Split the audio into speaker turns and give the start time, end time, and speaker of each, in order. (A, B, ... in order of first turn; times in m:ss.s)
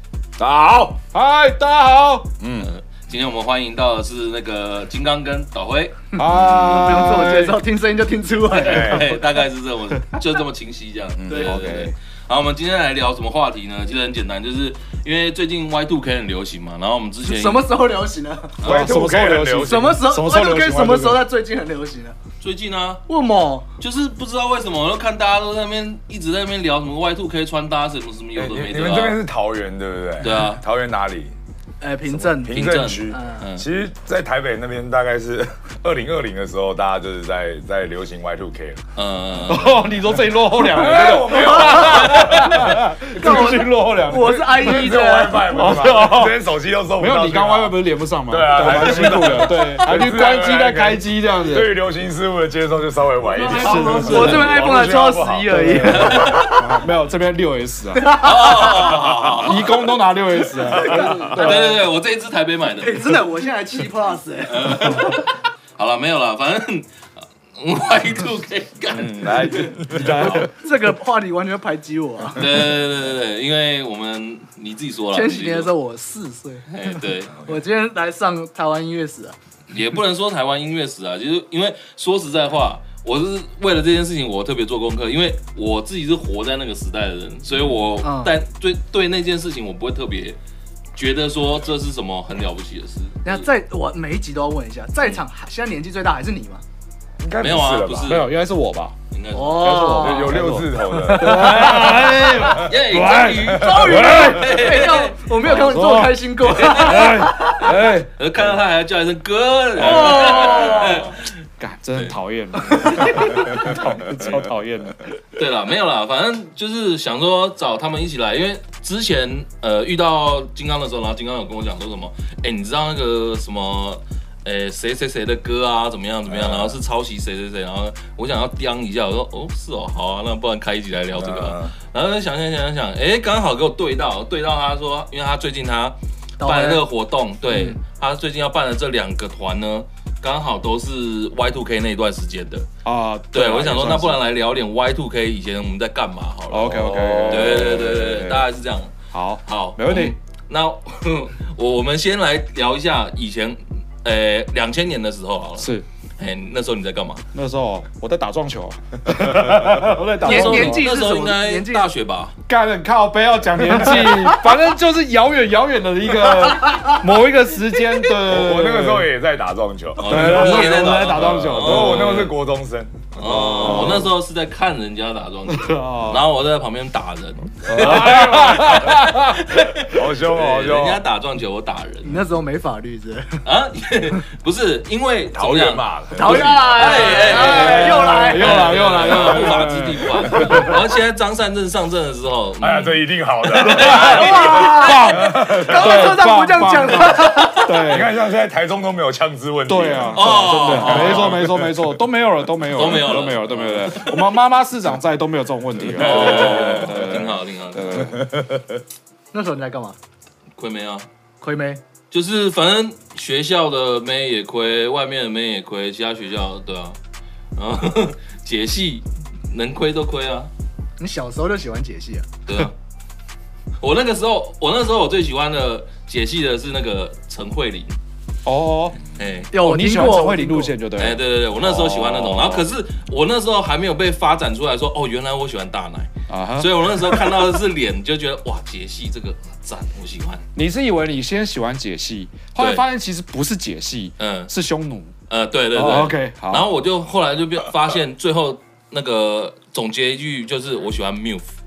0:00.4-0:01.0 A
0:01.1-0:02.3 B
0:02.4-0:02.7 A
0:02.6-0:06.0 C
0:06.1-0:07.6 B
0:06.2-0:09.2 D
0:08.5-0:17.7 C
0:08.5-0:09.1 A
0:11.2-0:11.7 A
0:11.3-0:11.6 D
0:11.3-0:11.9 B
0:17.2-0:18.6 D
0:18.6-0:20.0 A
0:18.6-0:19.0 C
0:18.6-0:21.2 B
0:19.5-0:22.2 D
0:22.4-0:23.0 C
0:23.1-0:23.7 D
0:23.8-0:29.2 C
0:28.3-0:31.3 A
0:30.2-0:30.6 C
0:31.8-0:33.4 D
0:32.1-0:38.8 A
0:32.5-0:33.7 C
0:39.0-0:39.8 C
0:39.5-0:46.4 B
0:40.5-0:43.6 A
0:41.4-0:45.8 D
0:44.4-0:56.2 A
0:47.0-0:51.7 B
0:48.7-0:49.5 C
0:53.2-0:56.8 D
0:53.5-0:54.4 B
0:54.0-0:54.5 C
0:55.5-0:58.3 B
0:55.9-0:56.5 C
0:57.9-0:59.1 D
0:58.2-0:59.7 C
0:59.4-1:01.8 B
1:00.6-1:01.7 D
1:00.7-1:01.3 A
1:01.3-1:03.2 C
1:02.8-1:05.1 D
1:04.5-1:06.9 C
1:07.6-1:10.3 C
1:08.9-1:10.5 A
1:09.9-1:10.5 B
1:10.1-1:12.4 D
1:12.3-1:15.7 C
1:15.1-1:19.4 D
1:16.7-1:17.4 C
1:19.7-1:30.4 C
1:28.0-1:28.3 D
1:31.0-1:33.5 C
1:33.2-1:36.6 D
1:37.2-1:38.1 A
1:37.4-1:38.3 C
1:38.0-1:39.0 B
1:39.1-1:40.2 C
1:39.3-1:42.4 D
1:39.7-1:44.6 B
1:39.7-1:41.7 A
1:41.4-1:45.3 C
1:43.4-1:47.8 D
1:45.4-1:48.1 B
1:46.4-1:47.2 C
1:48.2-1:51.3 C
1:49.8-1:51.1 D
1:50.0-1:50.9 A
1:51.6-1:55.4 B
1:52.0-1:53.2 C
1:53.5-1:53.8 A
1:55.4-2:22.7 C
2:06.3-2:06.8 A
2:11.1-2:11.7 A
2:16.4-2:16.8 D
2:17.4-2:17.8 D
2:22.8-2:24.2 B
2:23.3-2:28.9 C
2:26.5-2:28.5 B
2:26.9-2:27.7 A
2:29.1-2:30.2 B
2:29.4-2:37.2 C
2:35.6-2:35.8 B
2:37.3-2:40.9 B
2:40.2-2:41.9 D
2:40.2-2:42.3 C
2:42.5-2:49.1 B
2:48.2-2:54.1 A
2:50.0-2:52.3 C
2:50.0-2:52.2 B
2:53.1-3:02.2 C
2:53.3-2:54.1 B
2:55.5-2:56.2 B
2:57.6-2:59.0 A
2:57.7-2:59.9 B
2:59.8-3:01.0 A
3:02.0-3:03.4 D
3:03.4-3:14.5 C
3:05.3-3:08.1 A
3:06.1-3:09.1 D
3:07.3-3:10.8 B
3:10.4-3:10.7 A
3:12.6-3:16.2 A
3:13.5-3:18.1 B
3:13.8-3:17.9 D
3:17.7-3:21.8 A
3:19.6-3:28.3 B
3:20.1-3:21.6 C
3:22.7-3:24.2 C
3:25.8-3:27.2 A
3:25.9-3:28.1 C
3:28.0-3:28.8 A
3:29.3-3:30.0 D
3:30.6-3:31.1 C
3:31.4-3:31.8 D
3:32.1-3:37.0 C
3:37.6-3:40.5 C
3:41.0-3:42.3 D
3:42.5-3:42.7 C
3:43.8-3:48.0 C
3:48.4-3:49.0 B
3:49.1-3:49.5 C
3:49.5-3:50.8 D
3:49.5-3:52.6 B
3:51.0-4:00.4 C
3:56.3-3:57.2 B
4:00.5-4:05.1 B
4:02.6-4:02.8 C
4:04.2-4:04.5 C
4:05.3-4:11.5 C
4:05.7-4:06.7 B